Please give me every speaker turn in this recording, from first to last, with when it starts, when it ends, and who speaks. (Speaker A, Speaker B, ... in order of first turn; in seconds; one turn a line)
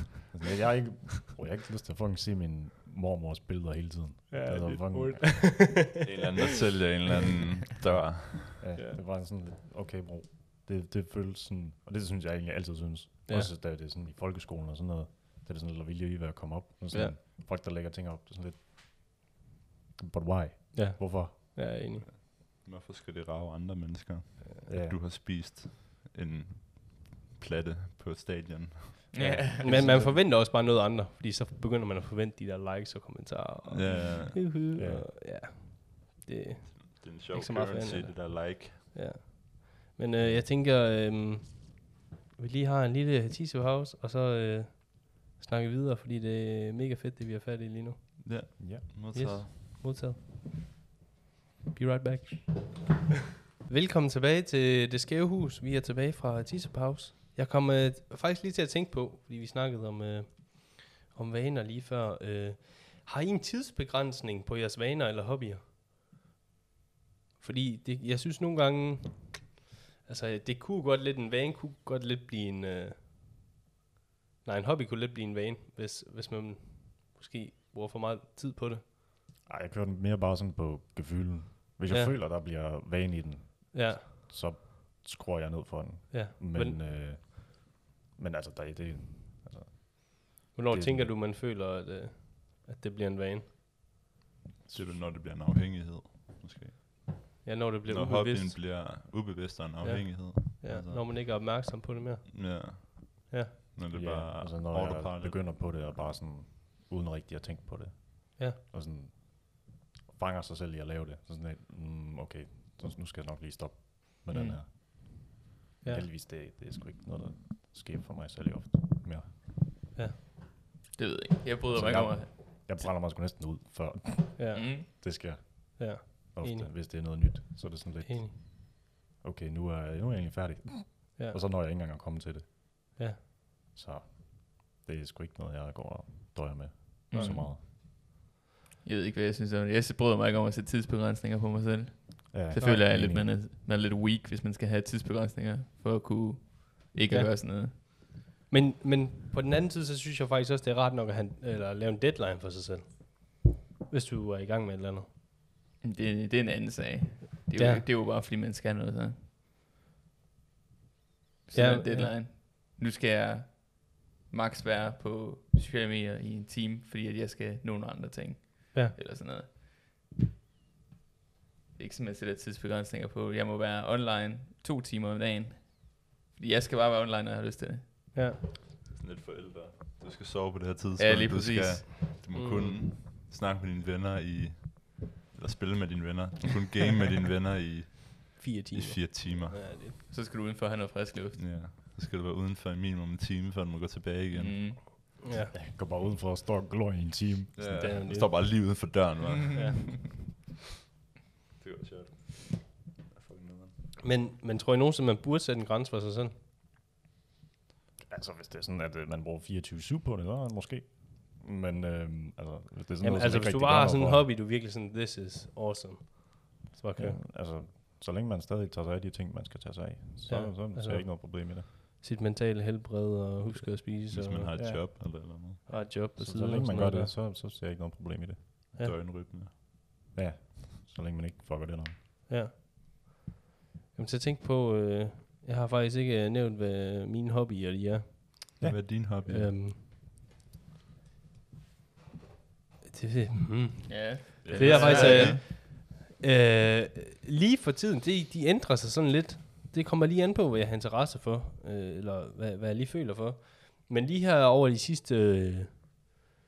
Speaker A: 0.3-5.7
Speaker B: 4.3-6.0
Speaker C: 6.0-8.6
Speaker A: 8.6-19.2
Speaker A: 20.0-21.4
Speaker B: 20.7-22.1
Speaker C: 22.0-29.3
Speaker A: 24.7-25.0
Speaker D: 29.1-29.8
Speaker A: 29.1-30.2
Speaker B: 29.6-50.5
Speaker C: 33.7-34.5
Speaker A: 34.7-35.1
Speaker C: 36.8-38.9
Speaker C: 48.2-49.5
Speaker A: 48.6-48.9
Speaker B: 51.7-52.9
Speaker B: 53.7-65.6
Speaker B: 67.4-69.5
Speaker B: 70.0-73.1
Speaker B: 74.5-78.8
Speaker A: 79.5-91.1
Speaker B: 81.9-82.2
Speaker B: 83.7-84.0
Speaker B: 86.1-86.8
Speaker B: 90.5-93.5
Speaker A: 94.7-95.0
Speaker C: 94.7-101.1
Speaker B: 97.4-98.6
Speaker B: 99.8-103.5
Speaker C: 102.3-105.4
Speaker A: 103.9-119.4
Speaker D: 114.3-114.6
Speaker D: 121.0-123.0
Speaker A: 121.7-133.0
Speaker B: 124.4-125.3
Speaker D: 124.5-124.9
Speaker B: 125.8-127.4
Speaker B: 128.1-128.3
Speaker A: 133.7-137.6
Speaker D: 137.1-137.5
Speaker B: 137.1-137.4
Speaker D: 138.8-147.8
Speaker A: 142.3-143.4
Speaker B: 142.6-142.8
Speaker B: 147.1-148.0
Speaker B: 148.5-155.1
Speaker D: 155.8-159.2
Speaker B: 157.6-157.8
Speaker D: 161.5-169.7
Speaker B: 161.5-162.2
Speaker D: 171.8-177.8
Speaker C: 178.9-189.7
Speaker D: 181.0-182.1
Speaker B: 182.3-182.8
Speaker B: 188.4-190.0
Speaker D: 190.1-191.5
Speaker C: 191.4-194.9
Speaker D: 194.3-194.8
Speaker B: 195.2-195.5
Speaker A: 195.5-198.1
Speaker C: 197.6-199.8
Speaker B: 197.8-198.5
Speaker B: 199.5-199.8
Speaker C: 201.6-203.8
Speaker B: 204.0-206.3
Speaker A: 208.1-214.3
Speaker B: 213.0-217.2
Speaker A: 217.0-221.7
Speaker B: 220.3-227.1
Speaker C: 223.6-225.6
Speaker A: 224.6-224.8
Speaker A: 225.6-228.8
Speaker C: 228.8-229.5
Speaker A: 230.1-232.0
Speaker B: 232.3-233.2
Speaker B: 233.9-239.9
Speaker C: 238.6-239.6
Speaker B: 242.9-255.8
Speaker D: 243.9-245.4
Speaker C: 244.4-245.4